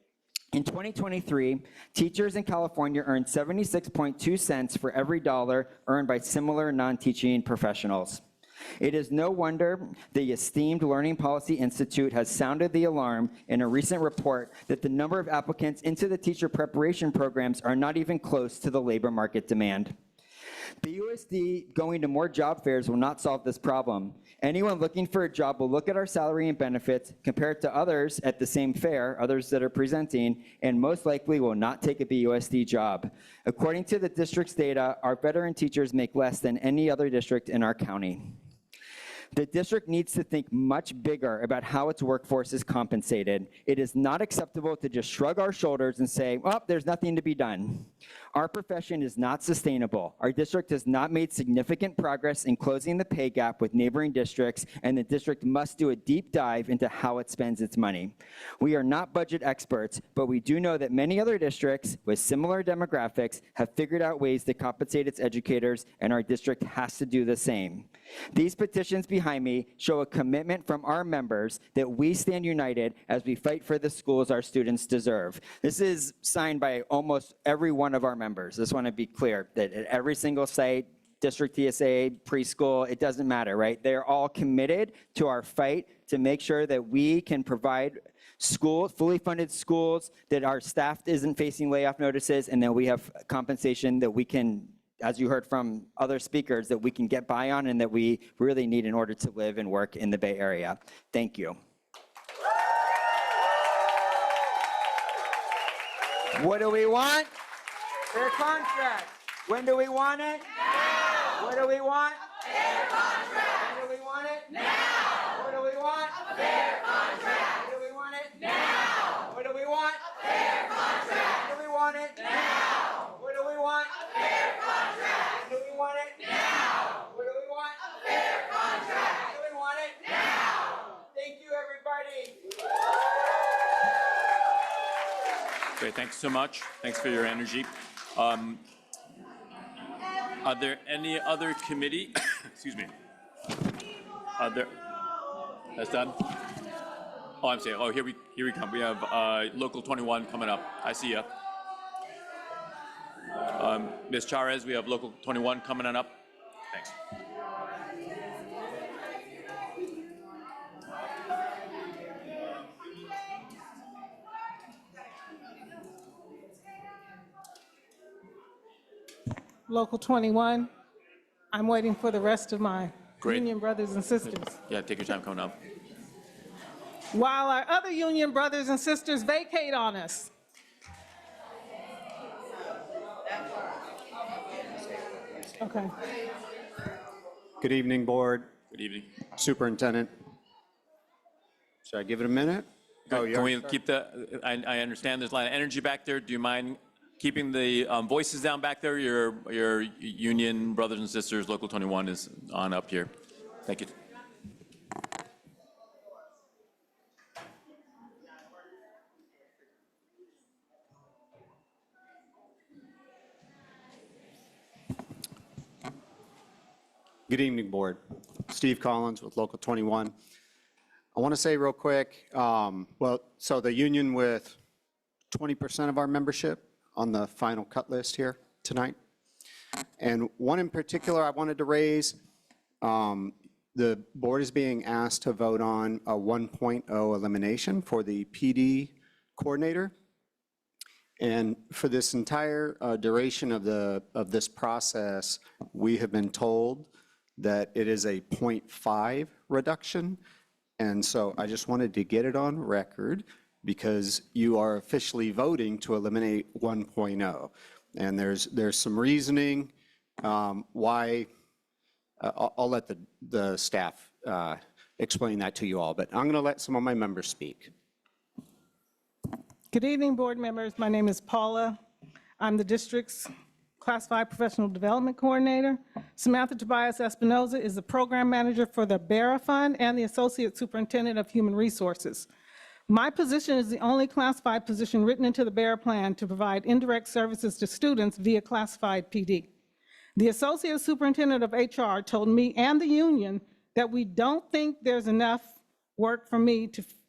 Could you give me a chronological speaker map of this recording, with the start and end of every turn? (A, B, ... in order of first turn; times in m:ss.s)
0:00.5-0:08.2 A
0:08.8-0:19.9 A
0:20.8-0:38.3 A
0:39.3-1:41.6 A
1:46.3-1:47.3 A
1:48.1-1:50.5 A
1:51.2-1:52.2 A
1:53.4-2:12.4 A
2:15.8-2:18.6 B
2:20.4-2:22.9 B
2:24.4-2:24.7 B
2:25.7-2:26.2 B
2:27.4-2:31.3 B
2:33.4-2:36.1 B
2:49.7-2:50.7 C
2:51.5-2:54.6 C
2:54.7-2:55.6 B
2:57.1-3:00.3 C
3:05.6-3:05.9 C
3:07.6-3:08.5 D
3:08.7-3:09.1 B
3:09.3-3:10.1 D
3:11.8-3:13.7 D
3:13.1-3:23.1 B
3:23.6-3:23.9 B
3:37.3-3:40.1 D
3:41.1-3:44.6 D
3:45.3-3:49.0 D
3:50.0-3:52.2 D
3:52.8-3:59.9 D
4:01.2-4:10.2 D
4:10.8-4:21.3 D
4:22.2-4:27.7 D
4:29.7-4:31.8 C
4:32.4-4:33.3 C
4:33.8-4:42.3 C
4:42.9-4:49.5 C
4:50.2-4:56.9 C